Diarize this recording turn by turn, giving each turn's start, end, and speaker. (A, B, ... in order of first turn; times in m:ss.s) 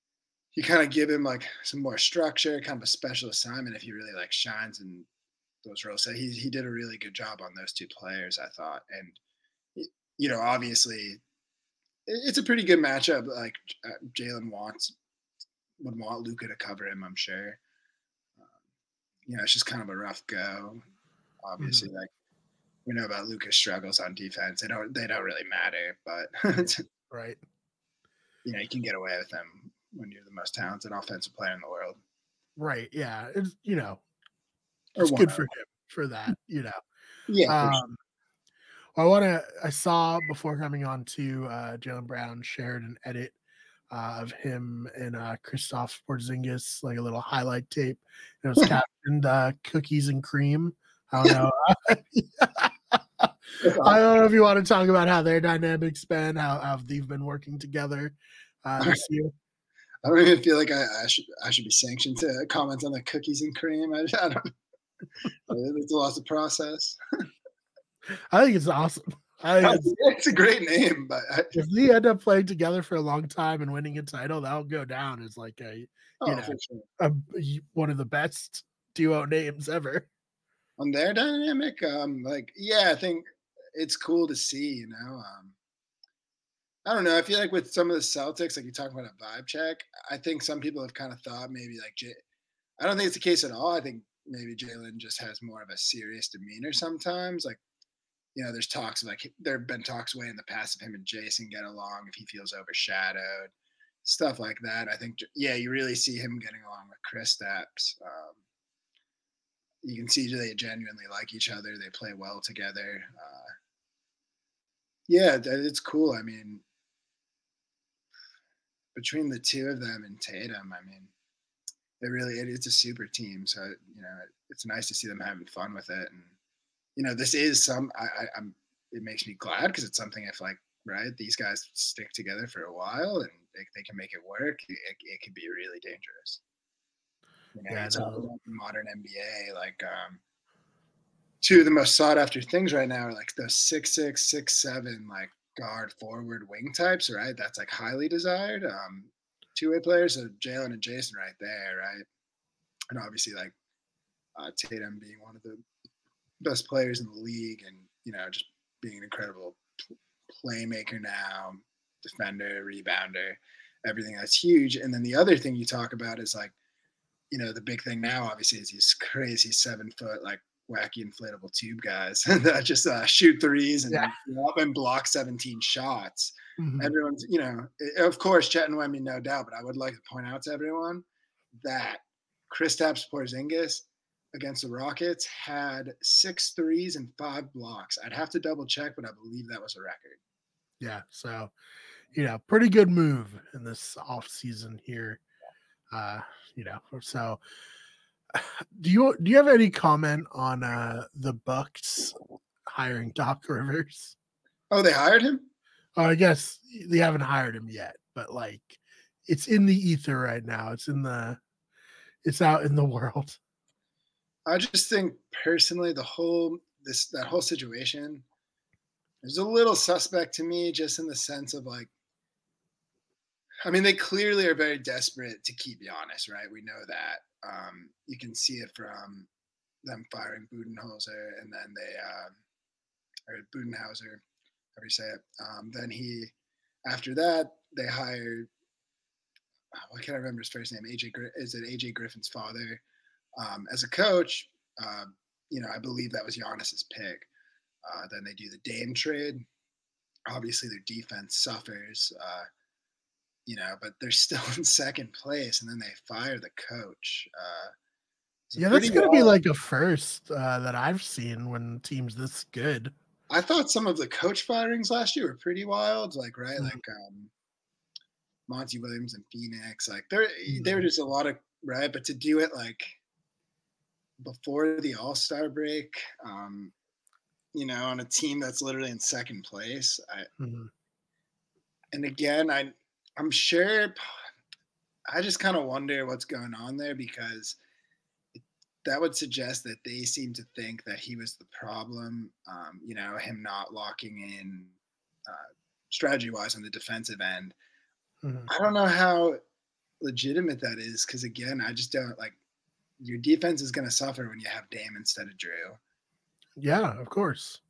0:00.5-0:05.1 A
0:05.6-0:09.2 A
0:09.7-0:11.2 A
0:12.1-0:15.0 A
0:15.8-0:17.6 A
0:19.3-0:20.8 A
0:21.4-0:22.1 A
0:21.6-0:21.9 B
0:22.8-0:26.8 A
0:27.1-0:27.4 B
0:28.4-0:32.0 A
0:32.6-0:34.0 B
0:35.0-0:35.5 A
0:35.0-0:36.8 B
0:37.3-0:37.8 A
0:37.5-0:38.0 B
0:39.0-0:43.4 B
0:43.9-0:59.3 B
0:53.6-0:54.0 A
1:00.0-1:04.4 A
1:05.5-1:07.0 A
1:08.3-1:09.9 B
1:09.6-1:11.6 A
1:11.5-1:20.1 B
1:16.2-1:16.9 A
1:20.8-1:23.2 A
1:23.7-1:25.6 A
1:26.8-1:32.2 A
1:32.8-1:37.6 A
1:38.3-1:43.5 A
1:44.0-1:48.4 A
1:49.8-1:53.5 A
1:55.1-1:56.6 A
1:58.9-2:01.1 A
2:02.0-2:06.3 A
2:07.0-2:16.4 A
2:17.5-2:20.2 A
2:17.7-2:18.3 B
2:21.4-2:32.0 A
2:32.9-2:33.5 A
2:34.4-2:35.6 A
2:36.4-2:39.6 A
2:40.3-2:46.5 A
2:47.3-3:01.0 A
2:56.6-2:56.9 B
3:01.6-3:10.2 A
3:10.8-3:11.5 B
3:12.1-3:15.2 B
3:15.9-3:17.4 B
3:18.3-3:24.1 B
3:24.7-3:25.5 A
3:26.0-3:31.4 B
3:32.2-3:33.4 B
3:34.4-3:38.2 A
3:39.2-3:41.9 A
3:43.6-3:49.3 A
3:49.8-3:52.4 A
3:53.3-3:54.2 A
3:54.7-3:56.3 A
3:56.8-3:58.5 A
3:59.7-4:02.8 A
4:03.4-4:07.3 A
4:07.8-4:09.4 A
4:10.3-4:12.4 A
4:13.4-4:17.7 A
4:18.5-4:19.4 A
4:18.6-4:22.9 B
4:23.3-4:27.3 A
4:28.5-4:33.0 A
4:30.5-4:30.8 B
4:34.2-4:36.7 A
4:37.5-4:40.3 A
4:40.4-4:40.7 B
4:41.9-4:44.1 A
4:45.1-4:47.6 A
4:48.8-4:54.7 A
4:55.2-4:57.5 A
4:58.2-4:58.5 B
4:58.5-4:59.4 A
5:00.0-5:02.4 A
5:03.0-5:05.8 A
5:06.6-5:07.6 B